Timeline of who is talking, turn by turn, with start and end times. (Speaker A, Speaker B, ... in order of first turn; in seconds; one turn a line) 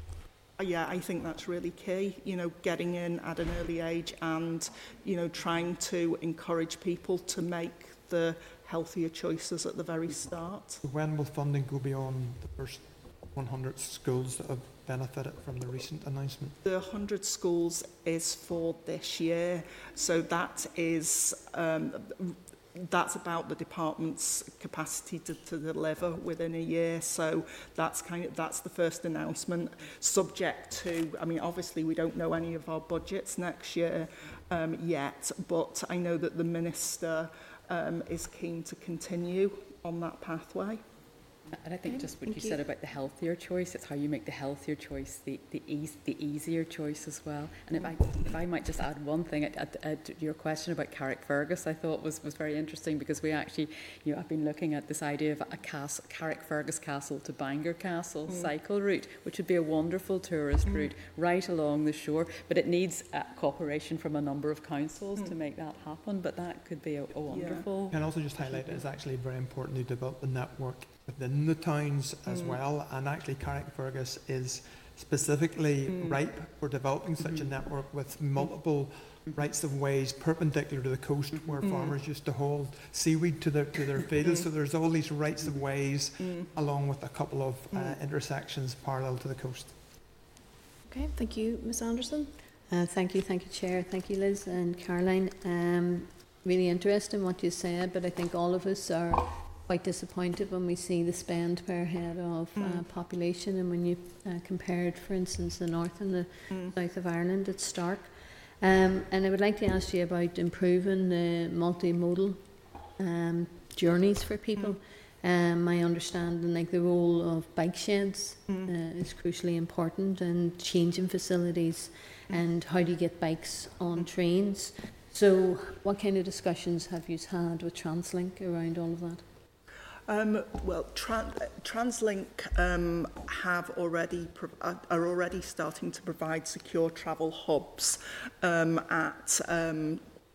Speaker A: 0.6-10.8
Speaker B: 10.8-16.6
Speaker A: 16.6-40.8
Speaker C: 41.6-68.8
Speaker D: 41.8-42.6
Speaker A: 67.3-67.7
Speaker B: 67.9-89.8
Speaker A: 72.3-72.6
Speaker A: 75.9-76.2
Speaker A: 81.6-82.0
Speaker A: 86.2-86.5
Speaker A: 87.7-88.0
Speaker D: 90.9-92.3
Speaker E: 92.7-108.1
Speaker A: 102.6-102.8
Speaker A: 106.5-106.7
Speaker E: 108.6-112.4
Speaker E: 113.0-129.2
Speaker A: 130.1-140.0